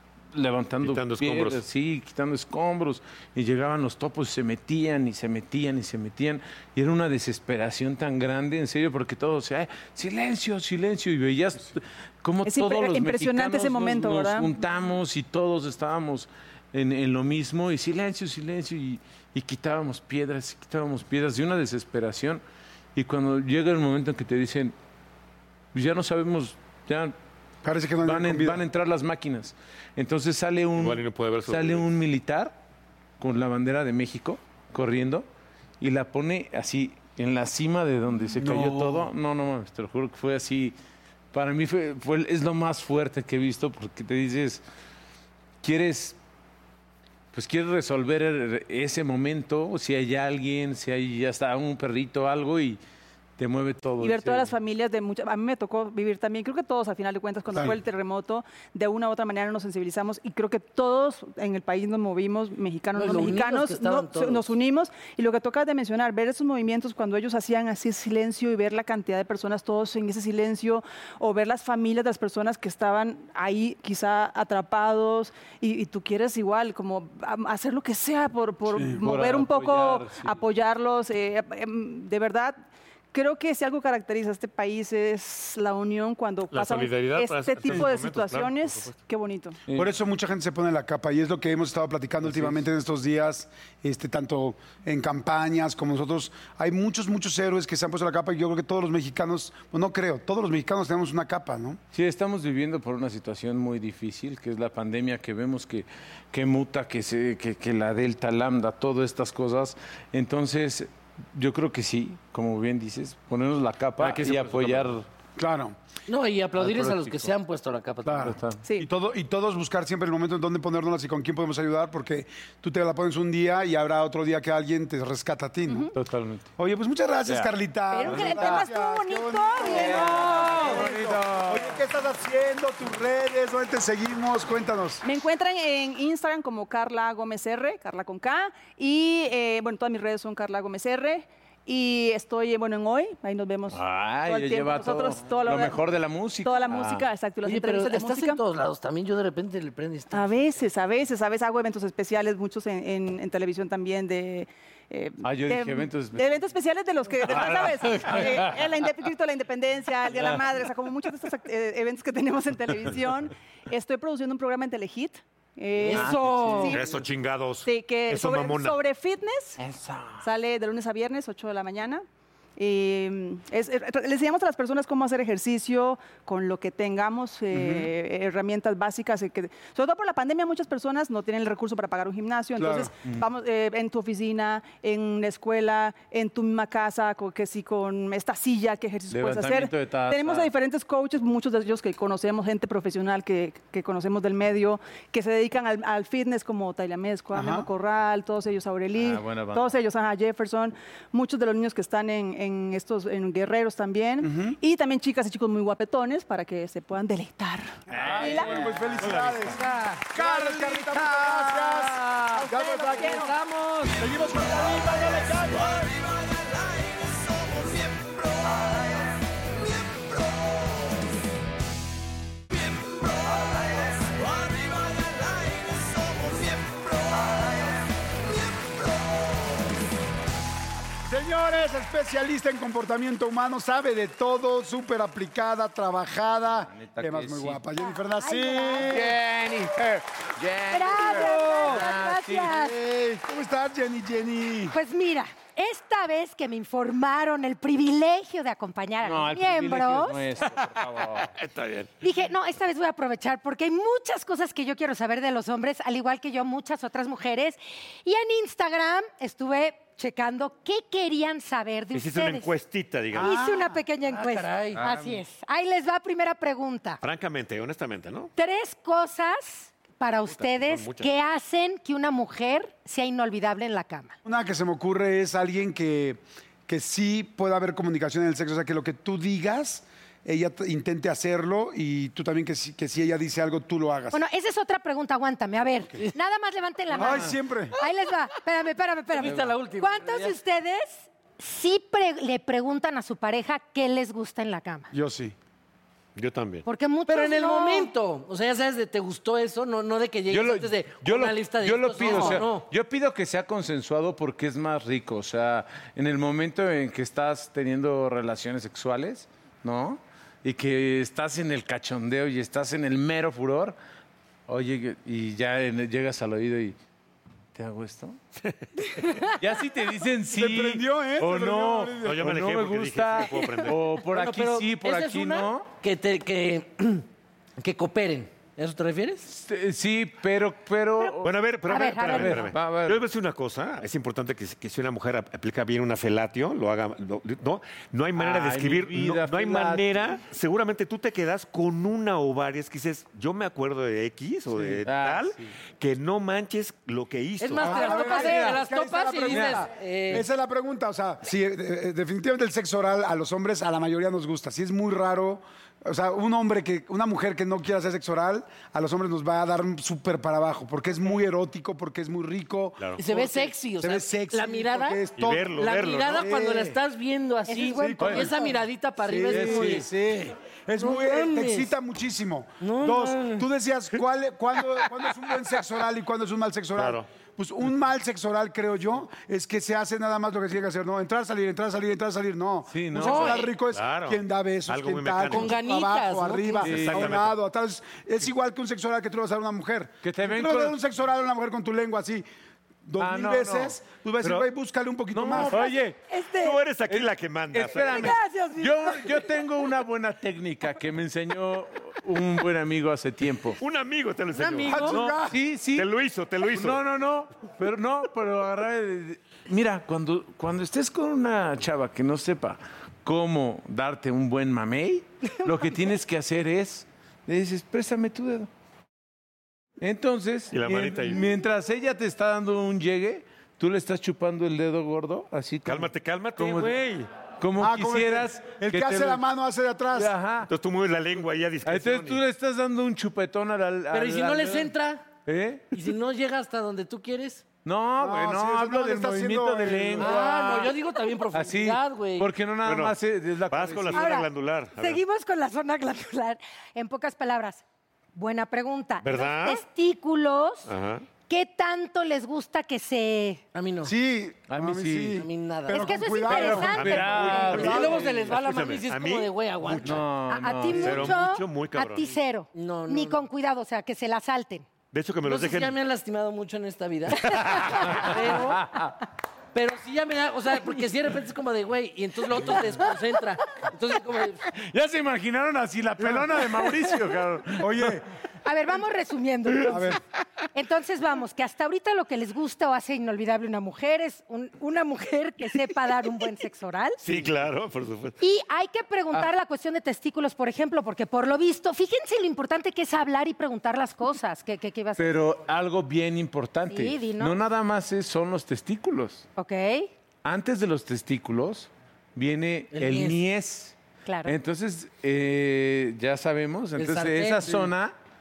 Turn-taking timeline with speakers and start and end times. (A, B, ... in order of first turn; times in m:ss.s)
0:00.3-0:22.4 A
0:00.8-0:01.6 B
0:12.4-0:14.5 C
0:22.9-0:24.7 A
0:25.7-0:27.1 A
0:27.6-0:28.6 D
0:28.0-0:32.6 A
0:30.8-0:31.8 B
0:33.2-0:35.2 A
0:35.8-0:40.7 A
0:38.4-0:39.1 D
0:41.3-0:44.6 A
0:45.6-0:46.2 A
0:47.3-0:52.8 A
0:53.4-0:54.5 A
0:54.0-1:22.6 C
1:02.9-1:04.5 E
1:18.8-1:20.4 A
1:23.1-1:29.6 C
1:26.5-1:28.9 B
1:29.7-1:41.8 D
1:32.2-1:32.6 A
1:41.9-1:55.0 A
1:54.0-1:54.7 D
1:55.4-1:55.8 D
1:56.1-1:58.3 E
1:56.6-1:57.3 A
1:58.0-2:05.9 D
1:58.2-1:58.6 A
1:58.6-1:58.9 C
2:05.6-2:05.9 C
2:05.9-2:06.5 A
2:06.6-2:15.0 D
2:08.0-2:08.7 F
2:08.0-2:10.8 C
2:09.7-2:11.8 A
2:10.2-2:10.7 E
2:15.0-2:25.8 C
2:23.7-2:27.0 A
2:26.4-2:28.4 C
2:27.4-2:30.5 E
2:30.1-2:46.8 C
2:35.2-2:36.2 A
2:37.3-2:38.8 A
2:40.1-2:40.4 A
2:45.8-2:46.8 E
2:45.9-2:46.8 A
2:46.7-2:48.8 B
2:47.6-2:49.6 C
2:49.6-2:50.2 A
2:50.2-2:52.0 C
2:52.6-3:28.5 C
2:57.5-2:57.9 D
3:02.6-3:02.9 D
3:09.1-3:10.5 A
3:17.3-3:17.7 D
3:19.0-3:19.8 A
3:24.2-3:24.6 D
3:27.9-3:29.1 A
3:28.0-3:29.6 D
3:29.0-3:29.6 B
3:29.5-3:30.1 E
3:30.1-3:33.3 D
3:30.2-3:31.2 A
3:31.8-3:34.0 E
3:32.5-3:33.3 C
3:33.9-3:35.9 D
3:51.0-3:59.1 D
3:56.6-3:57.6 A
3:57.8-3:59.1 F
3:58.8-4:02.5 A
4:00.7-4:02.8 F
4:01.0-4:04.8 D
4:04.7-4:10.2 F
4:09.0-4:11.3 A
4:10.6-4:11.9 B
4:12.0-4:22.5 F
4:21.9-4:23.4 B
4:23.2-4:27.0 F
4:24.0-4:24.9 E
4:24.8-4:25.2 A
4:27.0-4:28.3 B
4:28.4-4:34.1 F
4:30.3-4:31.1 B
4:34.2-4:44.2 D
4:44.1-4:54.9 F
4:46.9-4:47.7 D
4:47.0-4:47.3 A
4:49.1-4:50.4 E
4:54.9-4:55.3 D
4:56.2-4:56.6 B
4:56.6-4:57.9 F
4:57.1-5:02.7 E
5:00.3-5:13.8 A
5:02.1-5:02.4 D
5:14.5-5:16.8 A
5:17.5-5:18.2 A
5:18.4-5:19.2 B
5:19.4-5:25.7 A
5:20.3-5:22.3 D
5:22.0-5:23.8 B
5:24.0-5:27.0 E
5:27.6-5:29.3 E
5:29.3-5:31.3 A
5:31.2-5:47.9 B
5:31.7-5:32.5 F
5:32.0-5:33.0 A
5:38.2-5:40.2 A
5:44.6-5:45.5 A
5:47.4-5:50.3 E
5:47.6-6:05.5 D
5:48.2-5:48.5 A
5:49.3-5:50.1 A
6:03.0-6:11.7 E
6:05.2-6:06.3 B
6:06.1-6:06.8 D
6:07.5-6:08.6 F
6:07.7-6:08.4 D
6:09.0-6:32.2 D
6:09.2-6:09.7 A
6:12.6-6:13.4 E
6:16.8-6:17.1 B
6:22.7-6:23.3 A
6:22.9-6:23.5 E
6:23.7-6:25.5 B
6:25.3-6:26.8 E
6:26.6-6:27.2 A
6:26.7-6:27.3 B
6:30.0-6:30.8 A
6:32.8-6:35.7 D
6:33.0-6:33.8 A
6:34.2-6:34.5 B
6:35.1-6:36.0 A
6:35.6-6:36.6 F
6:36.4-6:38.2 B
6:36.9-6:43.6 A
6:37.9-6:39.4 F
6:43.6-6:45.0 B
6:44.3-6:45.1 E
6:44.6-6:45.4 D
6:44.9-6:45.9 A
6:45.7-6:46.8 B
6:46.4-6:58.5 A
6:59.8-7:06.7 A
7:00.5-7:01.3 B
7:05.6-7:07.1 B
7:07.4-7:09.2 A
7:07.6-7:10.1 D
7:09.9-7:10.5 A
7:10.5-7:12.2 B
7:11.6-7:14.7 A
7:13.9-7:15.1 E
7:15.2-7:15.7 A
7:15.7-7:17.5 E
7:17.6-7:20.6 A
7:18.0-7:20.7 D
7:20.0-7:22.3 E
7:21.3-7:24.1 A
7:22.6-7:23.0 B
7:23.5-7:25.0 B
7:23.9-7:27.6 F
7:28.1-7:30.7 F
7:29.0-7:29.6 B
7:30.7-7:31.0 B
7:31.3-7:33.4 F
7:33.5-7:33.9 E
7:33.8-7:38.0 D
7:34.5-7:35.2 A
7:35.1-7:36.5 E
7:35.7-7:37.5 F
7:36.3-7:38.3 A
7:36.6-7:39.9 B
7:37.3-7:40.0 E
7:39.8-7:41.2 A
7:40.3-7:44.7 F
7:40.7-7:42.1 B
7:42.5-7:43.2 E
7:44.9-7:45.8 B
7:45.2-7:48.6 E
7:47.1-7:48.1 B
7:48.1-7:48.9 A
7:49.5-7:54.5 E
7:54.5-7:58.0 A
7:56.0-7:56.4 D
7:57.6-7:58.0 D
7:58.4-8:00.0 F
7:59.7-8:00.0 D
8:00.5-8:07.0 F
8:07.0-8:08.1 B
8:08.2-8:15.2 F
8:15.0-8:19.2 A
8:16.7-8:17.4 F
8:19.4-8:19.9 F
8:20.2-8:23.7 A
8:22.7-8:23.2 E
8:24.0-8:24.4 F
8:24.3-8:27.9 A
8:26.8-8:27.7 E